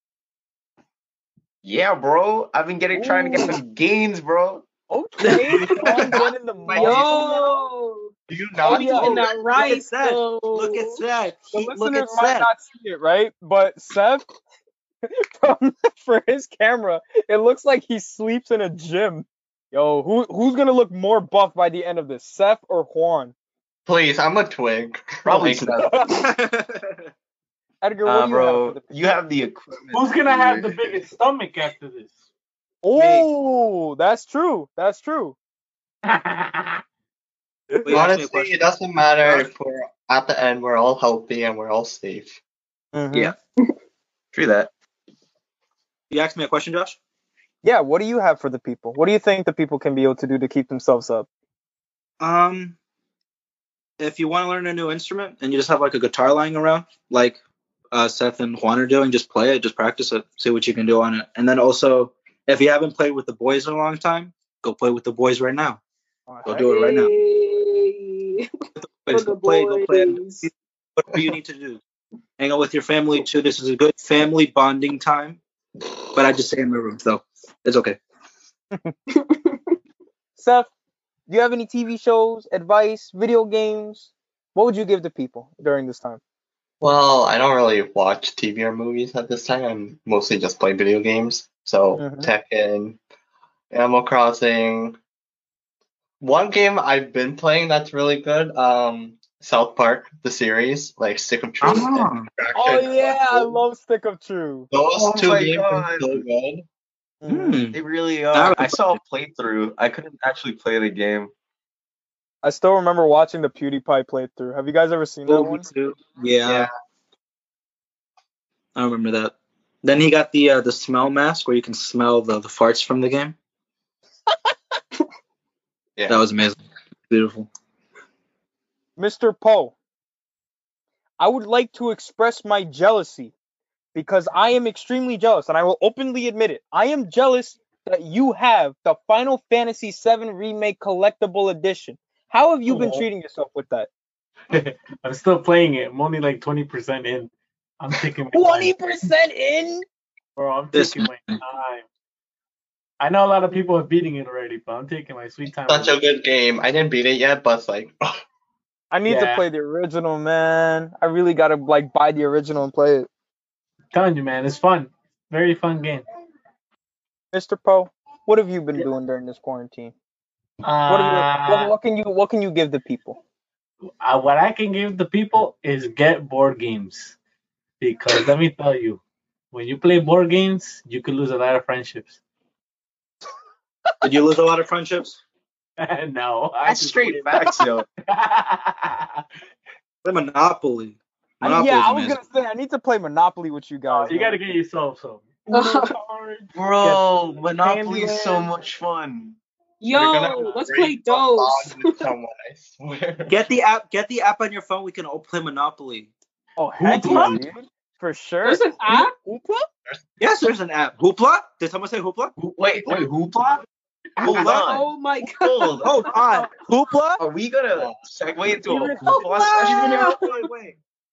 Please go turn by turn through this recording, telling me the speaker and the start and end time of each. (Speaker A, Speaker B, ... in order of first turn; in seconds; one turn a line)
Speaker A: 1.6-4.6
Speaker B: 2.9-3.6
Speaker B: 4.9-7.6
Speaker C: 5.2-5.7
Speaker D: 6.0-7.4
Speaker E: 6.7-8.1
Speaker D: 8.3-9.5
Speaker E: 8.6-11.0
Speaker B: 8.7-9.2
Speaker C: 9.5-12.5
Speaker B: 11.5-14.2
Speaker E: 11.5-11.8
Speaker B: 15.1-23.3
Speaker D: 23.9-25.8
Speaker A: 25.2-26.1
Speaker B: 25.3-26.2
Speaker C: 26.2-27.1
Speaker B: 27.8-28.8
Speaker A: 28.0-31.0
Speaker F: 29.9-32.2
Speaker B: 32.8-35.4
Speaker C: 32.9-33.3
Speaker F: 36.0-36.8
Speaker B: 37.7-38.1
Speaker C: 37.8-38.6
Speaker D: 37.9-42.4
Speaker C: 39.2-39.5
Speaker B: 42.9-43.3
Speaker A: 44.3-44.7
Speaker C: 46.1-47.0
Speaker B: 47.6-51.3
Speaker C: 52.2-52.8
Speaker C: 54.0-57.4
Speaker C: 57.9-65.8
Speaker B: 66.3-66.7
Speaker C: 66.5-67.1
Speaker E: 66.6-68.5
Speaker C: 68.8-71.8
Speaker E: 69.1-70.5
Speaker C: 72.4-75.4
Speaker C: 76.1-78.0
Speaker E: 79.1-79.8
Speaker B: 80.4-80.7
Speaker B: 81.3-86.2
Speaker D: 86.8-93.0
Speaker B: 92.0-92.3
Speaker D: 93.7-95.0
Speaker D: 96.2-103.6
Speaker C: 101.6-102.3
Speaker B: 102.5-104.7
Speaker D: 104.7-106.6
Speaker A: 104.9-106.2
Speaker B: 107.2-107.6
Speaker C: 107.3-107.8
Speaker A: 107.7-111.3
Speaker C: 108.3-109.0
Speaker B: 112.4-115.7
Speaker C: 115.3-116.7
Speaker D: 116.4-116.7
Speaker C: 118.7-123.3
Speaker D: 126.0-126.2
Speaker C: 126.1-126.6
Speaker C: 127.1-127.5
Speaker B: 129.0-129.7
Speaker B: 131.2-133.3
Speaker B: 133.9-143.9
Speaker F: 142.7-142.9
Speaker F: 144.5-149.1
Speaker B: 148.3-149.8
Speaker F: 150.3-151.8
Speaker C: 150.7-151.4
Speaker F: 153.0-155.9
Speaker D: 155.7-158.0
Speaker B: 158.9-163.1
Speaker F: 159.1-159.4
Speaker F: 163.9-166.1
Speaker B: 167.3-169.9
Speaker F: 170.6-171.7
Speaker B: 170.9-173.2
Speaker F: 174.0-177.2
Speaker F: 177.8-179.0
Speaker F: 179.5-182.2
Speaker C: 184.0-185.2
Speaker F: 185.8-189.2
Speaker A: 186.6-187.8
Speaker C: 190.0-192.2
Speaker B: 191.4-194.5
Speaker F: 193.9-196.5
Speaker E: 195.5-195.9
Speaker A: 196.5-199.3
Speaker F: 197.1-197.5
Speaker E: 199.8-202.0
Speaker D: 199.9-202.8
Speaker A: 202.8-203.5
Speaker C: 203.3-206.1
Speaker B: 206.6-209.7
Speaker C: 206.8-207.4
Speaker A: 207.1-207.3
Speaker E: 208.4-209.1
Speaker C: 210.2-212.3
Speaker A: 212.4-213.6
Speaker A: 214.2-216.1
Speaker C: 214.2-214.7
Speaker E: 214.4-216.4
Speaker C: 215.8-217.2
Speaker A: 217.2-220.2
Speaker B: 218.7-219.0
Speaker E: 219.1-220.3
Speaker C: 219.1-220.8